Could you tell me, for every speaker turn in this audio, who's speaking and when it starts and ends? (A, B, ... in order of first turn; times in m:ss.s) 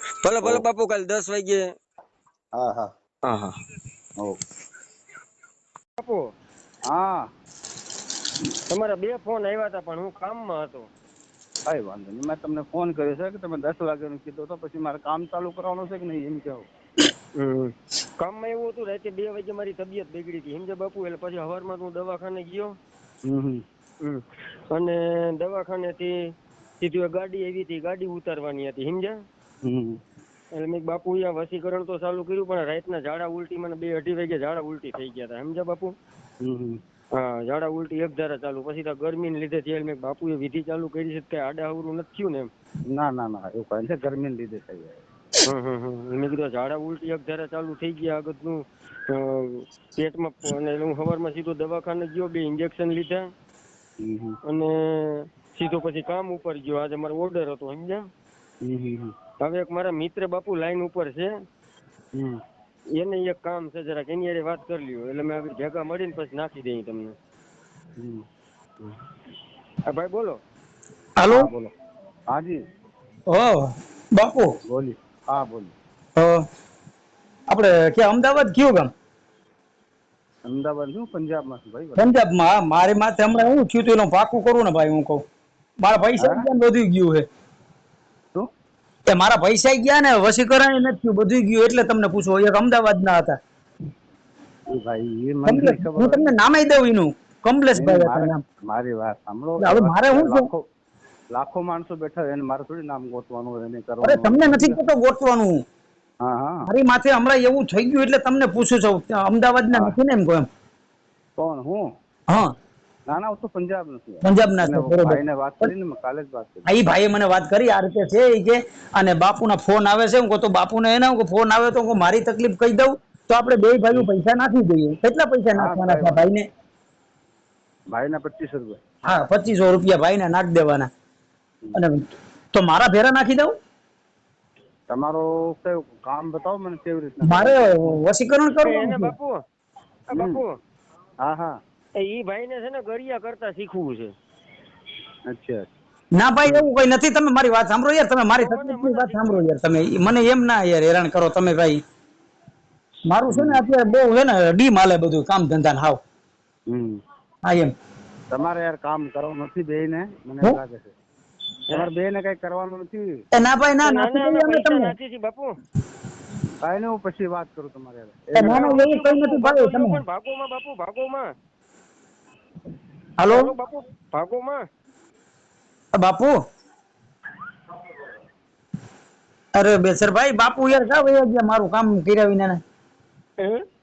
0:00.2-0:01.6 A
0:02.6-0:02.9 B
0:03.3-0:03.6 A
0:06.0-0:06.3 A
0:06.9-0:07.2 B
0:08.7-0:10.9 A
0:11.7-0:16.7 B
0:17.4-0:22.8 A
0:23.2-0:23.6 B
0:24.0-0:29.2 A
0:29.6-0:30.0 B
0:30.5-0:36.0 A
0:36.4-0:36.8 B
0:37.1-0:42.5 A
0:42.9-0:45.0 B
0:45.4-0:53.3 A
0:54.0-0:54.4 B
0:54.4-0:58.1 A
0:58.6-0:59.1 B
0:59.4-1:01.3 A
1:02.9-1:07.2 A
1:08.0-1:08.2 B
1:09.9-1:10.4 A
1:11.2-1:11.5 C
1:11.3-1:11.7 B
1:12.3-1:12.6 B
1:13.3-1:13.6 C
1:14.2-1:14.5 C
1:14.7-1:15.7 B
1:16.2-1:16.4 C
1:17.5-1:18.9 C
1:20.5-1:22.2 B
1:22.0-1:25.2 C
1:25.8-1:27.3 C
1:26.2-1:26.4 B
1:29.1-1:33.4 C
1:34.7-1:36.4 B
1:35.4-1:38.4 C
1:37.8-1:40.6 B
1:39.6-1:40.5 C
1:41.3-1:44.8 B
1:44.0-1:45.6 C
1:46.2-1:46.7 B
1:46.7-1:50.5 C
1:51.4-1:51.8 B
1:53.1-1:56.7 B
1:54.2-1:55.7 C
1:56.7-2:06.5 C
2:05.6-2:06.2 B
2:07.9-2:08.9 B
2:09.1-2:10.9 C
2:11.8-2:13.6 C
2:14.9-2:17.8 B
2:17.2-2:19.2 C
2:18.6-2:19.4 A
2:20.1-2:20.6 A
2:20.1-2:20.4 B
2:21.2-2:21.6 B
2:22.0-2:24.1 A
2:25.3-2:25.7 B
2:26.2-2:31.8 C
2:26.4-2:26.7 B
2:28.4-2:29.4 A
2:33.1-2:36.0 C
2:33.3-2:33.6 B
2:36.7-2:37.0 B
2:37.4-2:37.7 C
2:38.3-2:40.9 B
2:41.7-2:43.2 B
2:43.3-2:45.0 C
2:43.8-2:45.6 A
2:46.6-2:48.8 B
2:48.3-2:50.0 C
2:48.4-2:51.3 A
2:53.2-2:53.5 C
2:53.3-2:54.7 A
2:55.9-2:56.4 C
2:59.6-3:02.6 C